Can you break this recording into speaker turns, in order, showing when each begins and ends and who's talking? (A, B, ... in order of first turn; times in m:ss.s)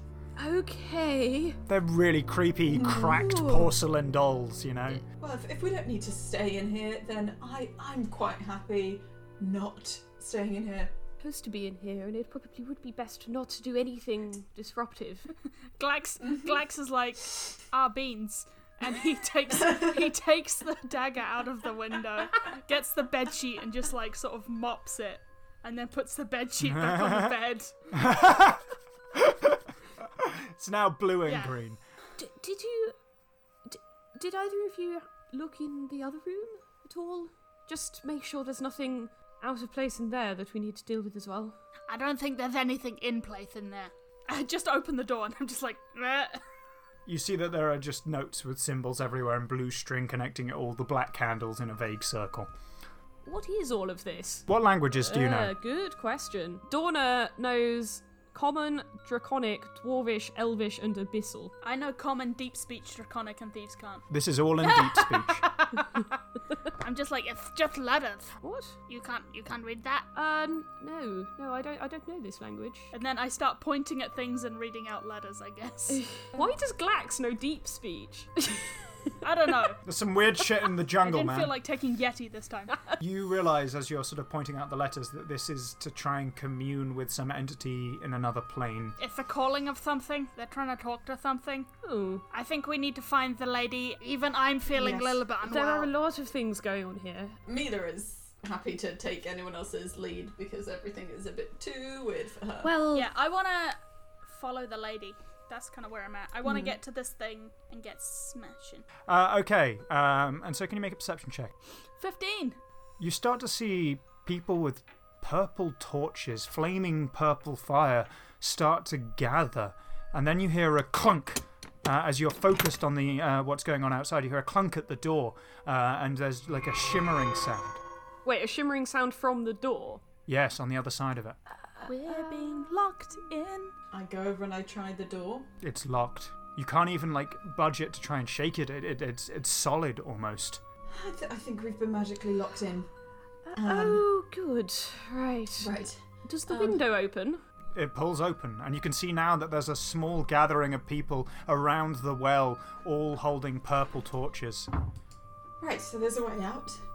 0:00.4-0:01.6 A
0:01.7-0:05.0 B
0:02.8-0:03.2 C
0:03.1-0:03.7 A
0:05.1-0:10.9 C
0:11.2-0:15.3 A
0:15.8-0:27.8 D
0:26.7-0:27.3 B
0:27.9-0:28.6 B
0:29.1-0:31.8 B
0:31.2-0:31.6 D
0:32.2-0:33.0 A
0:33.7-0:41.6 A
0:41.9-0:46.4 D
0:47.1-0:52.5 B
0:53.2-1:01.5 A
0:54.5-0:55.5 B
1:01.6-1:04.1 D
1:04.1-1:05.4 B
1:04.6-1:06.1 D
1:06.7-1:08.4 D
1:08.4-1:08.8 A
1:08.9-1:10.1 D
1:10.2-1:12.9 A
1:12.9-1:16.0 D
1:15.9-1:18.8 A
1:19.2-1:19.8 D
1:19.8-1:21.5 B
1:21.0-1:22.8 D
1:23.0-1:29.0 B
1:29.0-1:31.7 D
1:31.8-1:32.2 A
1:32.3-1:35.9 D
1:35.4-1:37.4 A
1:37.5-1:42.7 C
1:42.6-1:43.1 A
1:42.9-1:48.9 D
1:46.5-1:46.7 C
1:49.1-1:51.5 B
1:52.0-1:52.6 D
1:53.0-2:07.8 B
2:08.2-2:10.0 A
2:10.3-2:11.4 B
2:11.8-2:12.7 A
2:11.9-2:13.7 D
2:13.9-2:15.5 C
2:15.6-2:20.6 B
2:20.9-2:22.9 C
2:23.5-2:27.4 A
2:23.6-2:24.0 C
2:25.6-2:26.8 C
2:27.8-2:34.7 B
2:35.6-2:36.8 C